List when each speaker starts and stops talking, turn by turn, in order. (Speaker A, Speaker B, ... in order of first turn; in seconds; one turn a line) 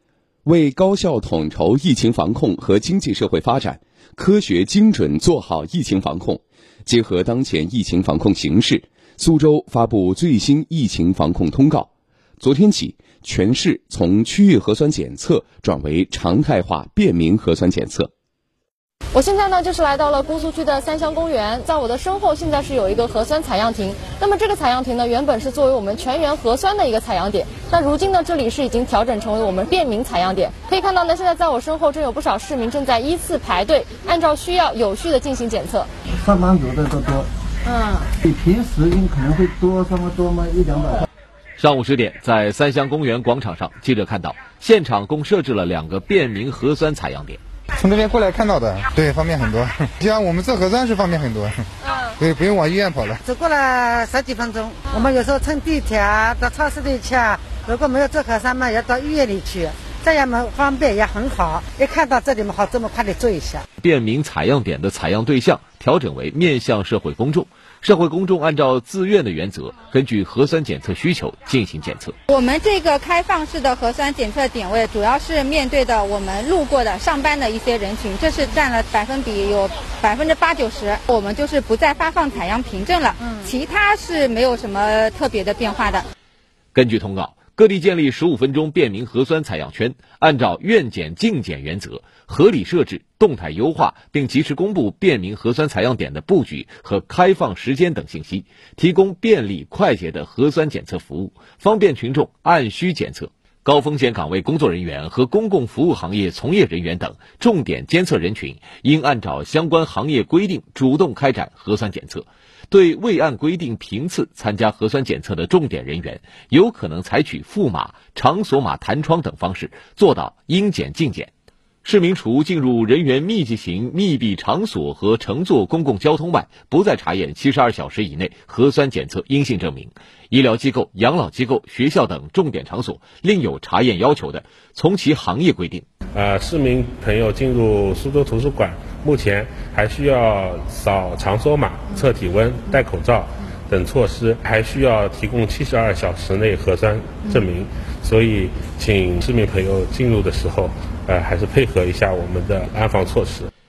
Speaker A: 0.4-11.9
Speaker A: 12.4-18.1
Speaker B: 19.1-35.9
Speaker C: 36.2-37.3
Speaker B: 37.7-38.0
Speaker C: 38.2-41.0
Speaker D: 41.6-47.4
Speaker E: 47.8-51.6
Speaker E: 52.2-53.2
Speaker F: 53.2-63.6
Speaker D: 63.8-72.2
Speaker G: 72.3-86.0
Speaker D: 86.7-121.3
Speaker D: 121.8-135.8
Speaker H: 136.1-153.5